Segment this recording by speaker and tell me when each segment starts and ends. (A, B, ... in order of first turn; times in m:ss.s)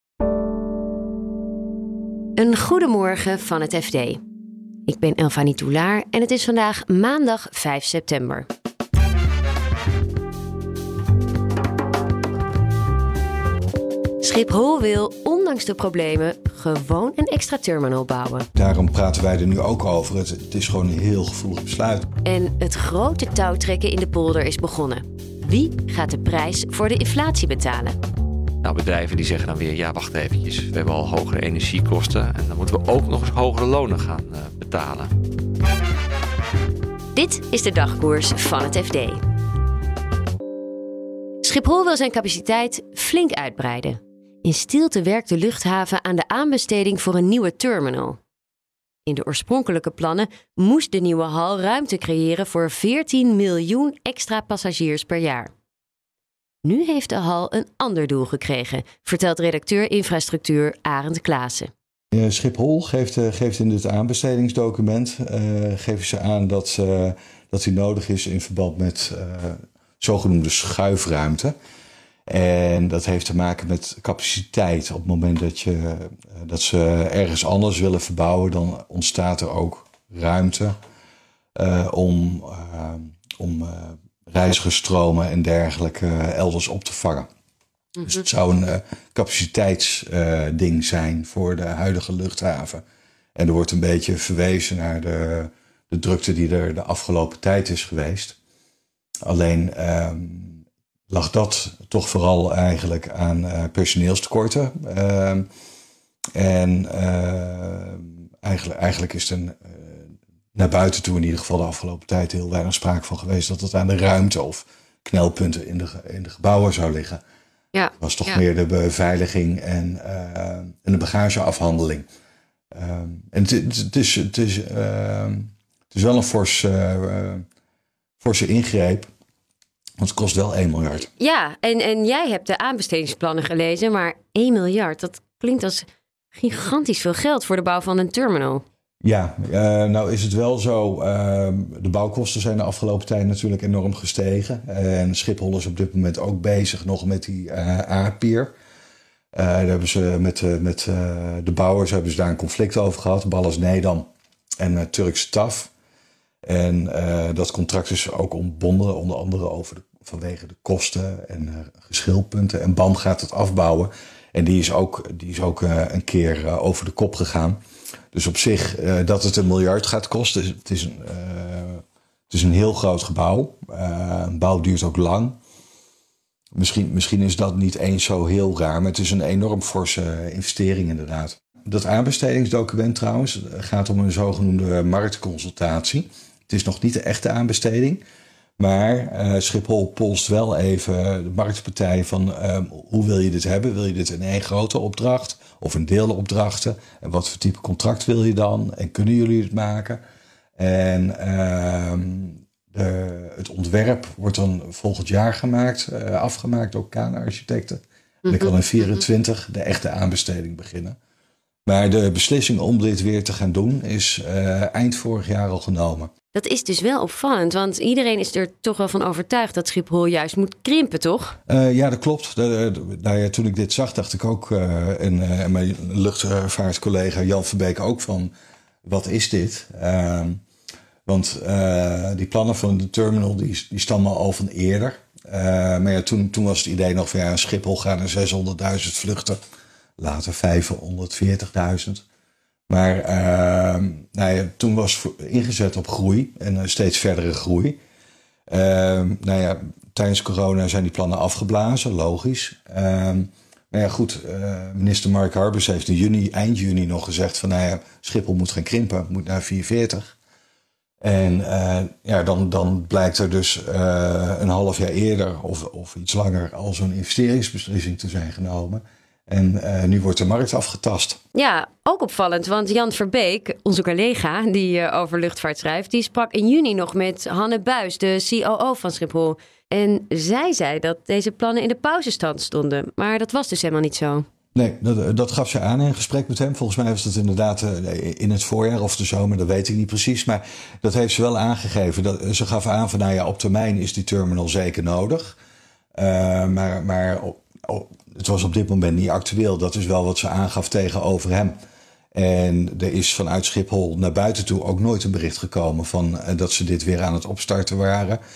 0:02.4-0:04.2 A
0:04.9-0:08.5 A
0:14.2-0:18.5 A
0:18.5-0:22.1 B
0:22.2-0:28.0 A
0:28.6-0:35.1 C
0:37.1-0:39.2 A
0:41.4-0:48.2 A
0:49.1-0:55.5 A
0:56.6-1:01.7 A
1:02.1-1:11.5 B
1:12.3-1:20.8 B
1:21.6-1:27.3 B
1:28.0-1:32.8 B
1:33.4-1:38.4 B
1:39.2-1:45.5 B
1:46.3-1:57.2 B
1:57.7-1:58.4 A
1:58.0-2:02.0 B
2:02.7-2:07.4 B
2:08.2-2:09.1 B
2:10.0-2:11.1 B
2:11.0-2:18.6 A
2:19.0-2:28.5 B
2:29.3-2:34.1 B
2:34.6-2:35.7 B
2:36.4-2:47.6 B
2:48.1-2:55.4 B
2:56.5-3:08.0 B
3:08.6-3:20.0 B
3:20.6-3:31.0 B
3:28.3-3:28.5 A
3:31.7-3:36.1 B
3:36.3-3:41.4 A
3:41.5-3:48.3 B
3:48.8-3:50.4 B
3:51.0-3:59.4 B
4:00.0-4:02.0 B
4:02.7-4:07.8 B
4:08.5-4:20.2 B
4:21.0-4:31.2 B
4:31.3-4:44.2 A
4:44.6-4:55.4 B
4:55.9-5:01.6 B
5:02.1-5:08.2 B